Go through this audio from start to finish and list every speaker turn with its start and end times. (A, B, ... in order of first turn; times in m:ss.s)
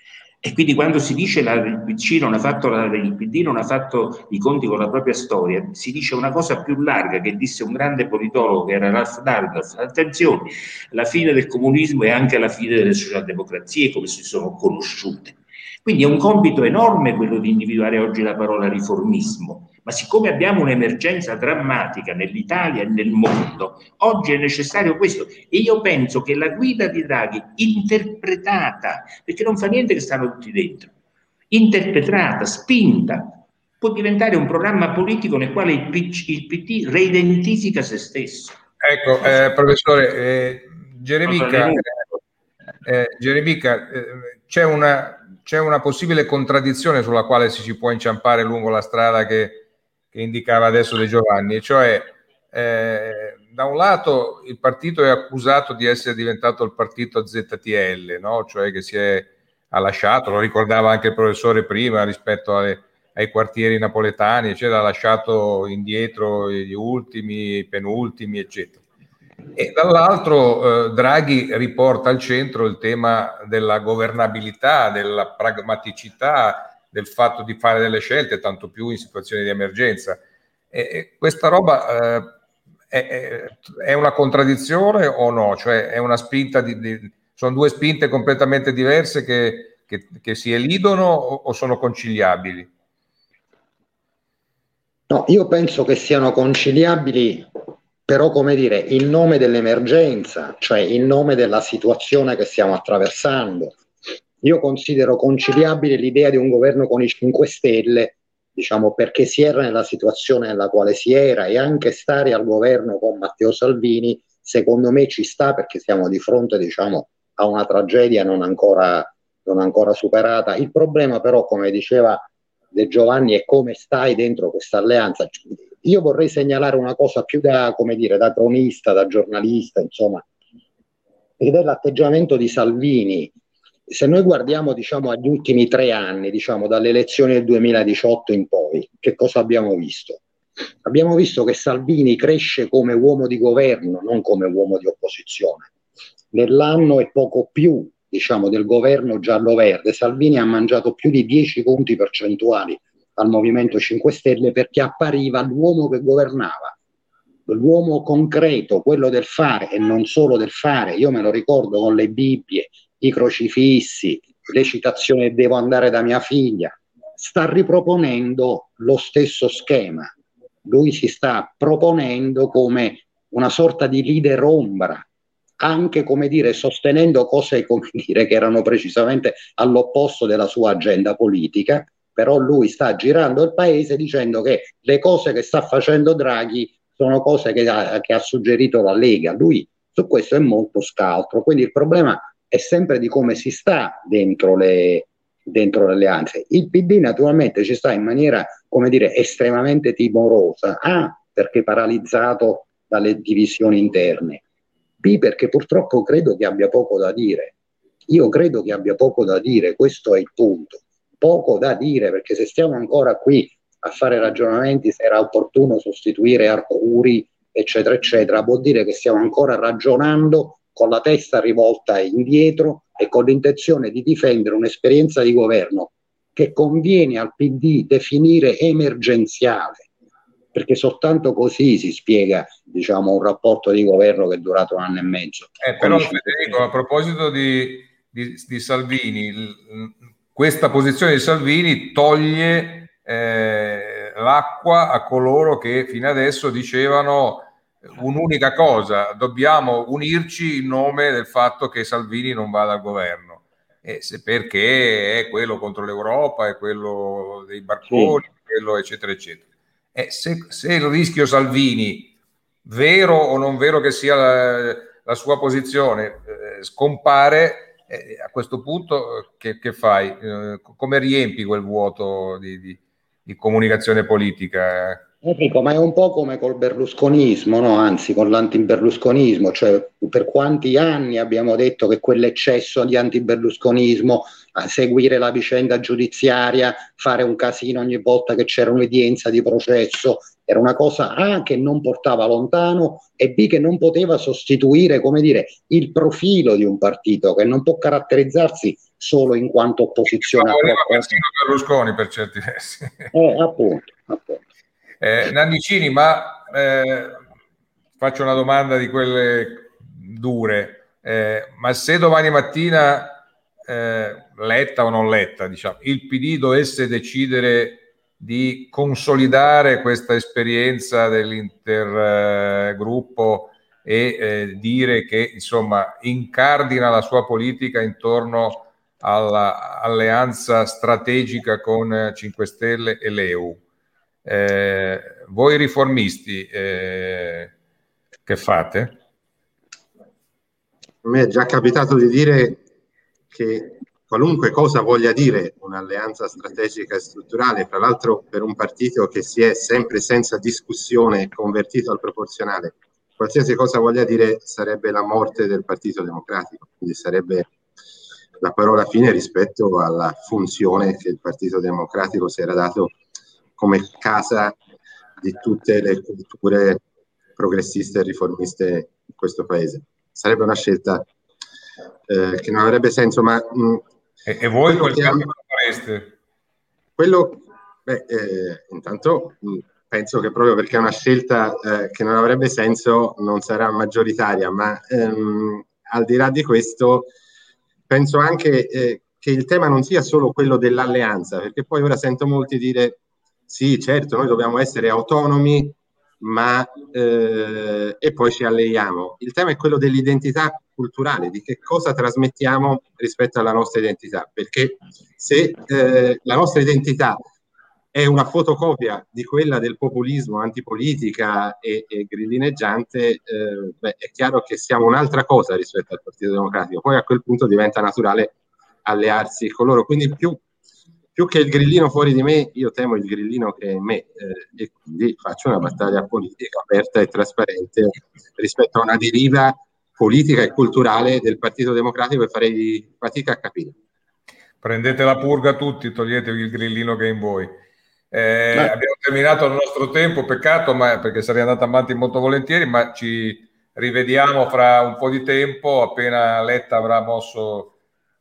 0:00.4-0:30.9 A
0:31.5-0:38.6 A
0:38.8-0:42.0 B
0:41.3-0:41.8 A
0:42.8-1:08.8 B
1:09.6-1:20.2 B
1:20.7-1:22.3 B
1:22.9-1:32.7 B
1:35.1-1:43.8 C
1:44.4-2:10.2 C
2:11.4-2:13.3 C
2:13.9-2:20.2 C
2:20.8-2:25.7 C
2:26.3-2:36.8 C
2:37.5-2:50.1 C
2:50.6-2:55.0 C
2:55.6-3:24.4 C
3:25.0-3:27.6 C
3:28.1-3:49.9 C
3:50.5-3:56.5 C
3:55.6-4:19.4 B
4:17.9-4:18.2 C
4:20.0-4:22.1 B
4:22.7-4:35.0 B
4:35.2-5:01.2 C
5:00.2-5:03.1 B
5:03.1-5:04.4 C
5:05.0-5:07.2 B
5:08.0-5:33.6 B
5:34.2-5:37.5 B
5:38.3-5:39.0 B
5:41.0-5:42.6 D
5:43.3-5:57.5 D
5:58.4-6:03.0 D
6:03.6-6:04.6 D
6:05.2-6:06.8 D
6:07.4-6:11.1 D
6:12.1-6:13.8 D
6:14.3-6:16.2 B
6:14.7-6:15.2 D
6:17.0-6:27.1 D
6:27.9-6:47.2 D
6:47.9-7:00.4 D
7:01.2-7:13.8 D
7:14.6-7:17.6 B
7:18.1-7:27.7 B